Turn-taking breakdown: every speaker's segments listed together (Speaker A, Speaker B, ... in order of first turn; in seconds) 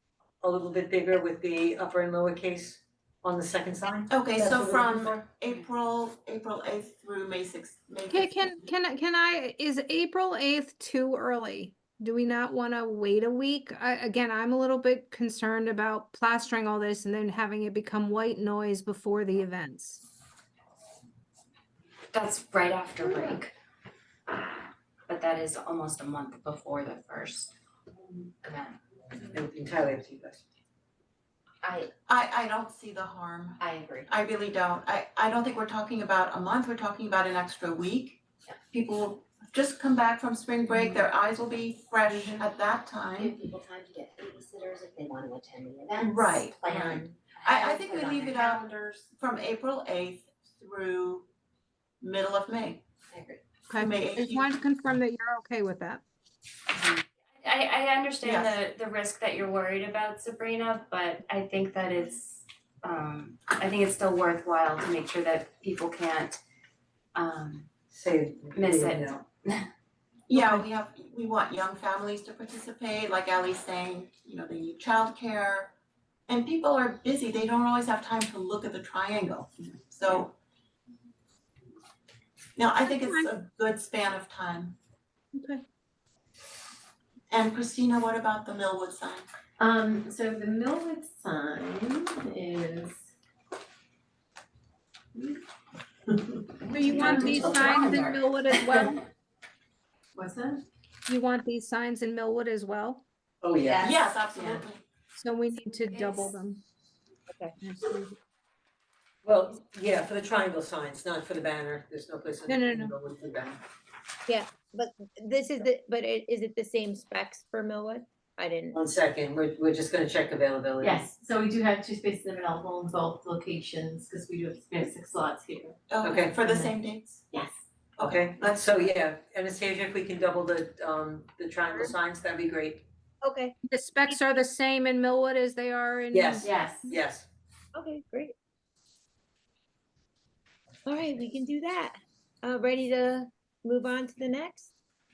Speaker A: 0.4-4.1, 29.3-30.4, 67.9-69.2, 97.2-97.6, 103.4-103.9, 109.2-113.6, 118.7-121.0, 126.0-126.4, 128.0-132.8, 136.1-137.3
Speaker B: 4.1-8.6, 32.1-43.4, 46.0-46.9, 47.4-51.3, 52.0-52.8, 53.7-54.5, 58.2-58.6, 70.3-75.7, 76.3-80.3, 82.5-84.7, 87.3-89.2, 103.7-104.8, 125.9-127.2, 128.0-128.3
Speaker C: 4.3-5.1, 114.3-118.8, 133.2-133.5, 137.7-138.3, 140.8-144.7
Speaker D: 8.1-20.0, 53.7-56.0, 70.3-70.6, 82.9-83.3, 85.3-85.6, 96.7-99.0, 101.0-103.0, 105.2-106.6, 107.6-108.1, 112.5-112.9, 133.7-136.5
Speaker E: 22.1-23.5, 25.1-27.5, 28.4-28.8, 31.6-31.9, 33.6-34.0, 44.5-45.9, 56.7-66.4, 67.1-67.7, 68.5-69.7
Speaker F: 43.2-48.5, 53.1-53.4
Speaker G: 89.6-93.1, 95.1-95.4, 96.1-98.2, 100.1-100.6, 104.3-104.6, 120.8-125.8, 126.4-126.7, 127.3-127.6, 136.4-136.9